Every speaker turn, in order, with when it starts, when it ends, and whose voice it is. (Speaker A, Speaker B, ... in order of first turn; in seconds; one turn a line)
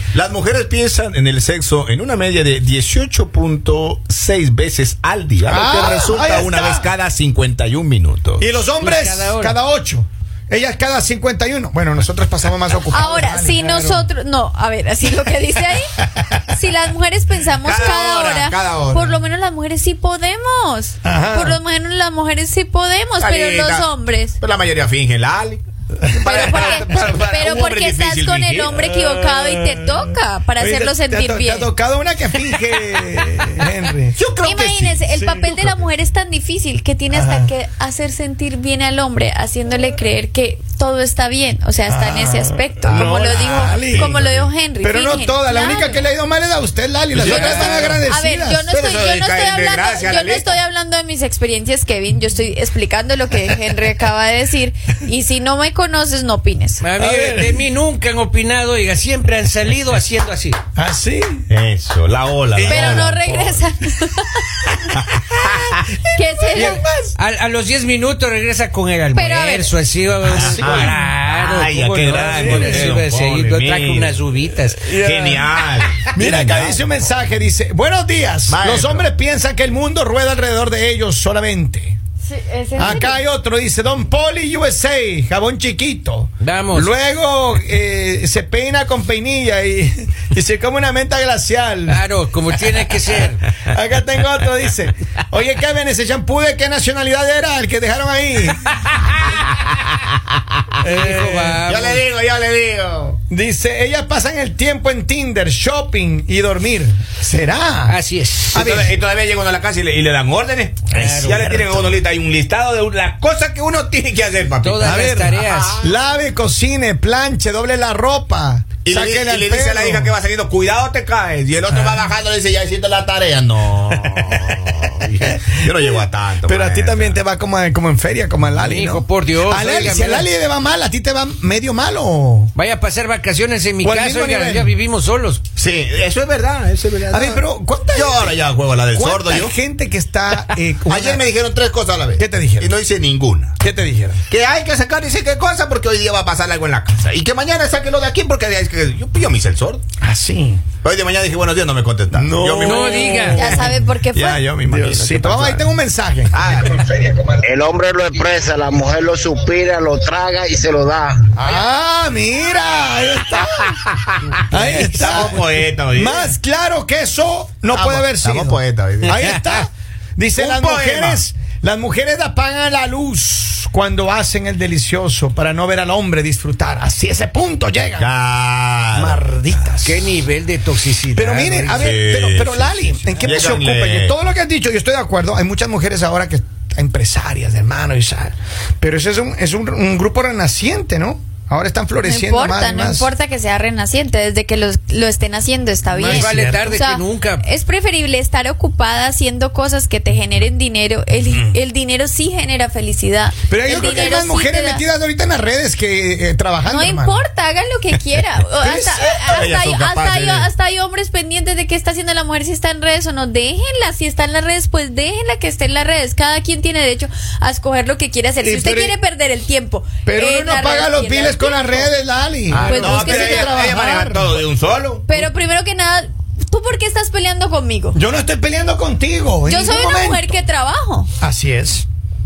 Speaker A: 0.1-8.5
Speaker B: 5.4-6.9
Speaker B: 8.4-13.6
Speaker C: 8.8-9.6
Speaker D: 12.9-15.9
Speaker C: 13.6-14.1
Speaker B: 16.1-16.4
Speaker D: 16.5-24.4
Speaker A: 17.6-19.2
Speaker B: 21.0-21.6
Speaker A: 23.2-29.9
Speaker B: 26.0-26.9
Speaker D: 26.2-31.7
Speaker B: 30.6-34.2
Speaker A: 34.2-35.0
Speaker D: 34.4-46.0
Speaker B: 35.1-35.8
Speaker B: 37.1-37.5
Speaker B: 41.9-44.2
Speaker A: 43.1-44.5
Speaker B: 44.8-48.7
Speaker C: 47.2-48.0
Speaker A: 47.2-47.5
Speaker D: 47.2-56.9
Speaker A: 48.7-50.5
Speaker C: 56.8-60.6
Speaker B: 57.0-57.7
Speaker B: 60.8-61.5
Speaker A: 61.5-63.4
Speaker B: 62.5-63.7
Speaker D: 62.6-64.7
Speaker A: 65.0-65.8
Speaker B: 65.1-67.2
Speaker D: 66.1-66.8
Speaker C: 66.5-75.1
Speaker D: 69.2-69.7
Speaker B: 70.2-71.0
Speaker A: 70.2-74.2
Speaker B: 72.3-73.0
Speaker A: 74.8-76.8
Speaker B: 75.1-75.5
Speaker B: 76.1-82.0
Speaker A: 78.5-79.1
Speaker D: 82.2-83.2
Speaker B: 82.8-92.0
Speaker C: 86.4-86.9
Speaker C: 91.9-93.5
Speaker B: 93.0-98.7
Speaker B: 100.8-101.6
Speaker C: 100.8-102.0
Speaker A: 101.7-103.2
Speaker B: 103.3-108.0
Speaker C: 107.9-108.7
Speaker A: 108.5-115.9
Speaker B: 108.5-108.9
Speaker C: 110.9-111.5
Speaker B: 110.9-112.0
Speaker C: 114.6-115.8
Speaker B: 114.8-120.1
Speaker A: 118.8-127.2
Speaker B: 121.7-122.1
Speaker B: 123.9-132.5
Speaker C: 128.6-130.3
Speaker C: 132.6-135.4
Speaker B: 133.8-134.7
Speaker A: 135.6-139.6
Speaker B: 137.1-138.4
Speaker B: 138.9-141.2
Speaker A: 140.9-143.6
Speaker B: 142.2-142.7
Speaker B: 143.6-144.2
Speaker A: 144.3-149.8
Speaker B: 150.0-150.7
Speaker A: 150.8-155.7
Speaker B: 152.1-153.9
Speaker C: 152.6-153.4
Speaker D: 153.2-154.4
Speaker B: 154.6-156.4
Speaker A: 156.3-156.9
Speaker E: 156.9-161.3
Speaker B: 161.3-163.8
Speaker C: 164.3-165.4
Speaker B: 164.5-178.1
Speaker A: 164.6-166.3
Speaker A: 167.7-169.3
Speaker C: 169.1-169.7
Speaker A: 170.3-171.2
Speaker A: 178.0-179.2
Speaker B: 178.9-180.1
Speaker C: 179.8-181.9
Speaker B: 181.1-193.1
Speaker A: 181.7-184.2
Speaker D: 192.0-204.8
Speaker C: 195.9-197.4
Speaker B: 196.0-196.6
Speaker B: 201.3-201.6
Speaker B: 203.5-207.2
Speaker D: 206.6-221.9
Speaker B: 208.6-209.2
Speaker A: 208.8-210.5
Speaker B: 218.4-219.0
Speaker B: 220.1-224.4
Speaker A: 222.5-225.2
Speaker D: 222.6-223.6
Speaker D: 225.1-228.0
Speaker B: 227.9-230.3
Speaker D: 229.5-231.1
Speaker B: 231.2-231.9